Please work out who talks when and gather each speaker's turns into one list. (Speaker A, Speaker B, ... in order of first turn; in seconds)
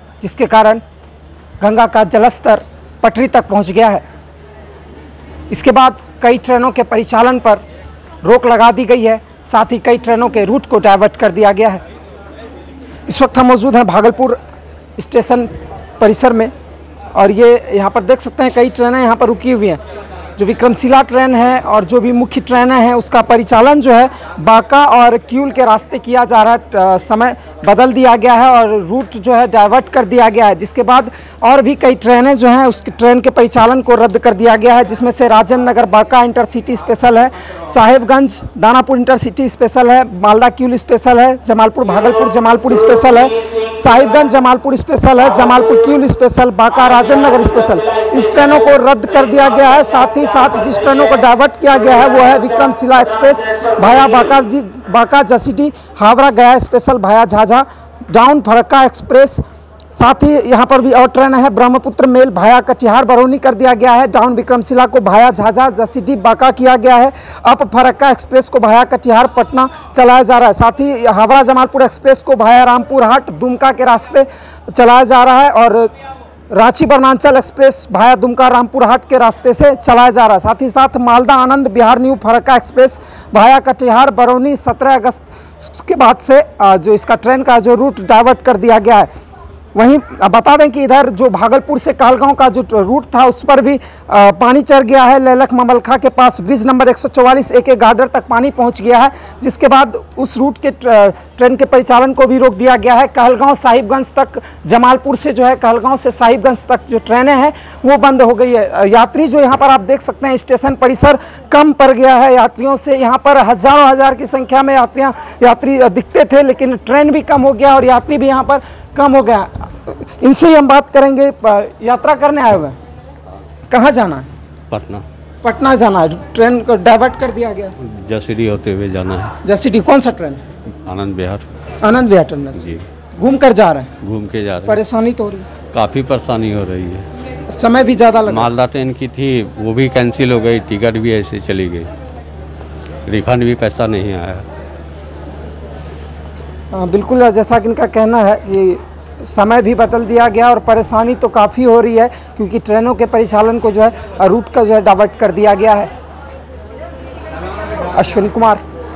Speaker A: 0.2-0.8, 1.6-4.0, 5.5-7.6, 8.2-11.8, 13.1-14.4, 15.0-16.5, 17.1-19.8, 20.4-59.4, 59.9-75.9, 76.5-89.1, 89.7-122.8, 123.7-124.3, 125.4-127.7, 129.4-130.4, 131.8-132.6, 133.2-133.9, 134.7-135.5, 137.5-138.5, 146.7-155.9, 157.9-158.6
Speaker B: 124.7-125.0, 127.8-129.3, 130.8-131.4, 132.6-132.8, 134.0-134.8, 135.7-137.1, 138.3-141.9, 143.1-144.4